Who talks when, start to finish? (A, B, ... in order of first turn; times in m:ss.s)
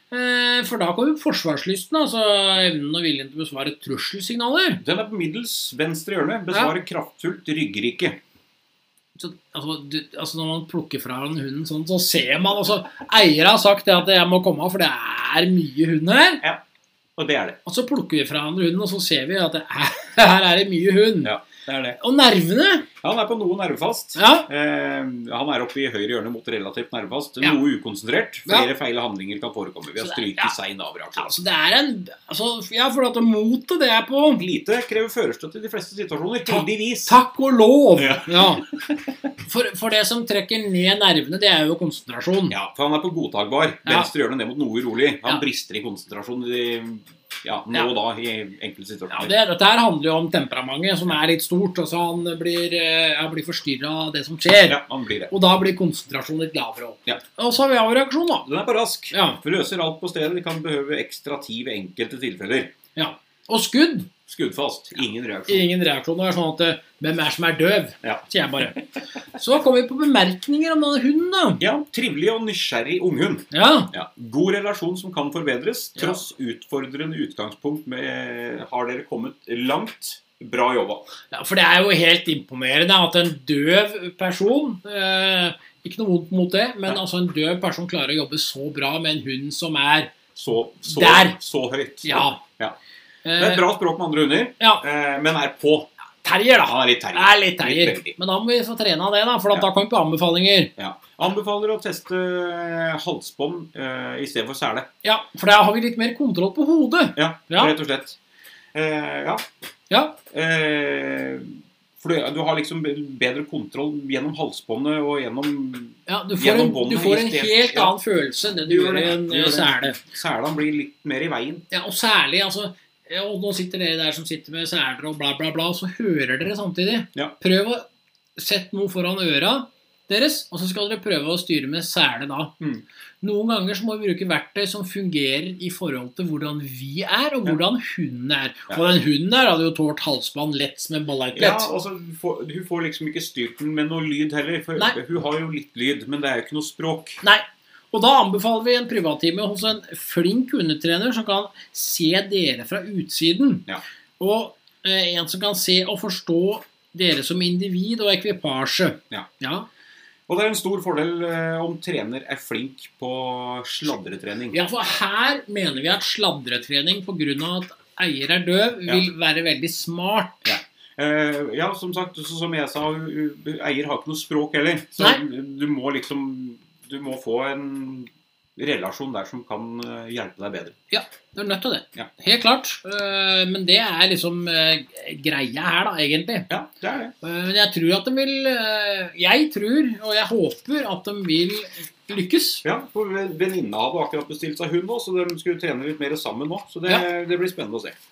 0:00.1-0:04.8 A
0:04.8-0:08.2 B
0:09.2-0:16.4 A
0:17.2-0:17.6 B
0:17.7-0:21.3 A
0:21.2-0:22.0 B
0:22.0-0:22.9 A
0:23.0-0:31.3 B
0:24.2-0:24.5 A
0:30.0-0:30.5 A
0:31.1-0:34.4 A
0:34.4-0:37.2 B
0:36.5-0:38.7 A
0:38.0-0:39.1 B
0:39.4-0:42.6 A
0:42.5-0:49.3 B
0:49.1-0:58.5 A
0:54.6-0:55.3 B
0:58.5-1:02.7 B
0:59.1-0:59.4 A
1:03.0-1:04.1 A
1:04.3-1:05.7 B
1:05.5-1:08.8 A
1:09.3-1:11.6 A
1:11.6-1:21.1 B
1:13.5-1:13.9 A
1:16.0-1:16.2 A
1:21.3-1:30.2 A
1:30.4-1:32.8 B
1:30.8-1:31.4 A
1:32.0-1:32.4 A
1:33.2-1:33.7 A
1:33.4-1:35.9 B
1:36.2-1:40.7 A
1:36.6-1:38.2 B
1:40.8-1:44.9 B
1:45.0-1:47.7 A
1:47.2-1:48.2 B
1:48.7-1:49.4 B
1:49.9-1:50.2 A
1:50.3-1:58.0 B
1:56.1-2:00.0 A
1:58.6-2:01.6 B
2:01.7-2:12.5 A
2:13.2-2:21.7 A
2:21.3-2:27.2 B
2:27.2-2:33.7 A
2:34.2-2:39.7 A
2:40.3-2:44.6 B
2:44.5-2:50.4 A
2:50.4-3:00.8 B
3:00.9-3:06.5 A
3:06.5-3:07.1 B
3:07.2-3:12.6 A
3:12.6-3:18.0 B